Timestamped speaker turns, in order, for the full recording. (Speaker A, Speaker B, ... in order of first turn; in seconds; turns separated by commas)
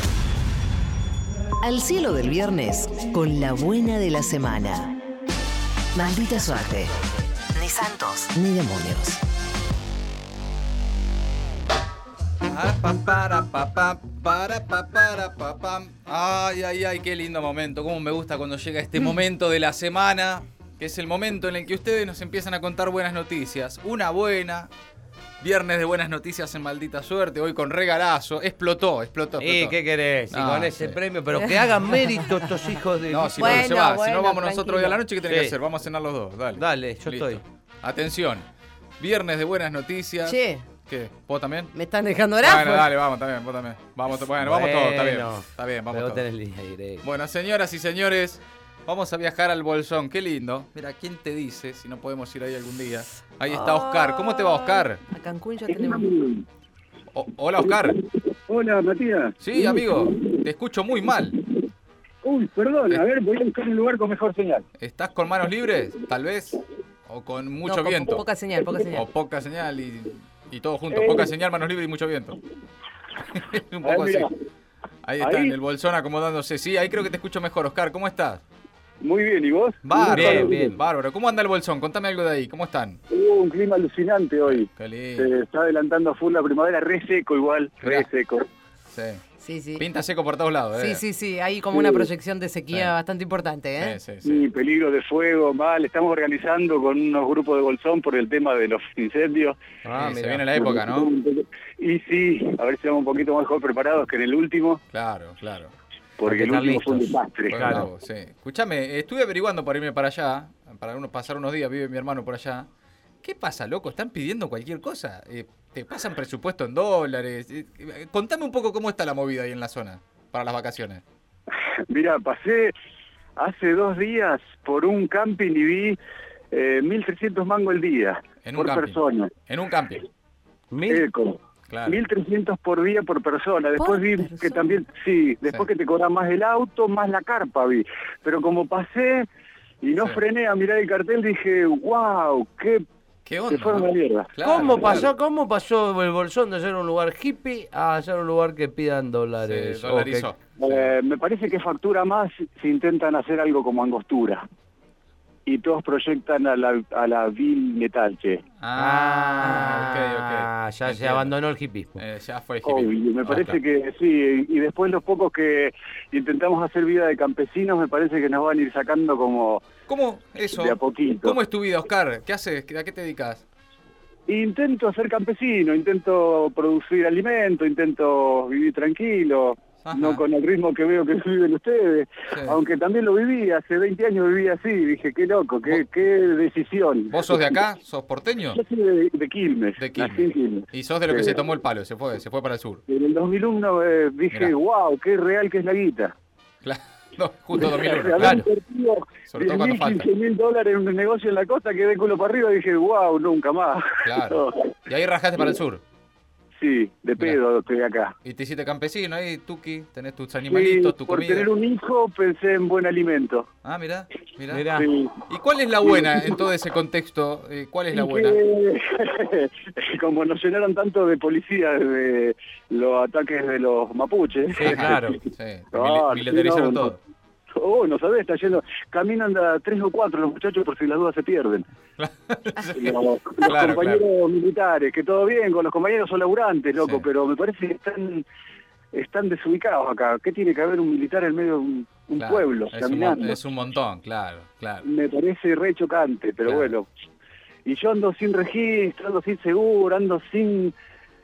Speaker A: 1.6-4.9, Speaker A: 5.9-6.9, Speaker A: 7.5-9.2, Speaker B: 12.4-24.7, Speaker B: 25.4-29.8, Speaker C: 29.4-33.7, Speaker B: 30.3-31.0, Speaker D: 32.2-32.4, Speaker B: 33.1-38.5, Speaker D: 33.4-35.0, Speaker C: 35.2-35.5, Speaker C: 36.6-37.4, Speaker B: 39.0-41.7, Speaker D: 40.2-40.6, Speaker D: 41.7-42.9, Speaker B: 42.4-46.2, Speaker C: 44.4-47.0, Speaker B: 47.0-55.0, Speaker D: 53.5-56.1, Speaker E: 55.7-56.4, Speaker B: 57.1-58.0, Speaker E: 57.6-60.4, Speaker B: 59.4-61.4, Speaker E: 62.2-64.6, Speaker B: 64.8-68.2, Speaker D: 67.7-69.1, Speaker B: 68.9-72.4, Speaker B: 73.3-74.3, Speaker E: 73.8-74.3, Speaker B: 75.0-78.4, Speaker E: 75.2-75.5, Speaker E: 79.0-80.7, Speaker B: 79.8-83.0, Speaker C: 80.1-80.7, Speaker E: 83.1-88.5, Speaker B: 84.5-85.3, Speaker B: 87.8-88.1, Speaker B: 88.9-89.2, Speaker D: 89.4-89.8, Speaker B: 89.8-91.0, Speaker D: 90.8-94.0, Speaker E: 91.7-92.1, Speaker B: 93.8-94.4, Speaker E: 94.2-99.6, Speaker C: 99.8-100.4, Speaker B: 100.0-101.1, Speaker E: 100.5-104.8, Speaker B: 104.9-105.7, Speaker E: 106.2-107.8, Speaker C: 106.2-107.9, Speaker B: 107.5-112.7, Speaker B: 113.2-121.0, Speaker E: 121.9-122.7, Speaker E: 123.4-126.0, Speaker E: 126.5-129.3, Speaker B: 128.4-130.0, Speaker C: 130.7-131.0, Speaker E: 130.9-139.3, Speaker B: 131.7-132.0, Speaker D: 133.8-134.7, Speaker E: 139.8-142.8, Speaker B: 143.2-145.1, Speaker E: 143.5-145.1, Speaker C: 144.4-150.3, Speaker B: 149.4-150.9, Speaker E: 150.6-154.4, Speaker E: 155.4-158.4, Speaker B: 158.6-161.3, Speaker C: 158.8-162.0, Speaker B: 162.0-163.6, Speaker E: 162.6-169.6, Speaker B: 169.9-173.4, Speaker E: 170.5-171.3, Speaker E: 174.3-187.4, Speaker B: 179.8-180.2, Speaker B: 182.3-182.6, Speaker B: 187.1-188.6, Speaker E: 188.5-191.4, Speaker B: 189.8-192.8, Speaker E: 192.9-196.1, Speaker B: 196.6-198.4, Speaker E: 197.6-204.7, Speaker C: 198.2-198.5, Speaker B: 199.3-200.1, Speaker B: 204.0-205.8, Speaker E: 206.6-208.1, Speaker B: 208.2-211.5, Speaker E: 210.5-213.5, Speaker B: 213.6-214.7, Speaker C: 214.5-214.9, Speaker E: 214.7-215.2, Speaker B: 215.3-218.4, Speaker E: 215.8-216.4, Speaker E: 217.9-225.2, Speaker C: 224.5-225.2, Speaker B: 224.6-227.0, Speaker E: 225.7-226.9, Speaker E: 227.6-231.6, Speaker B: 232.0-234.0, Speaker E: 232.7-238.2, Speaker B: 236.8-237.1, Speaker E: 238.9-243.4, Speaker B: 242.1-244.8, Speaker E: 244.8-246.8, Speaker B: 246.4-246.7, Speaker E: 247.7-250.7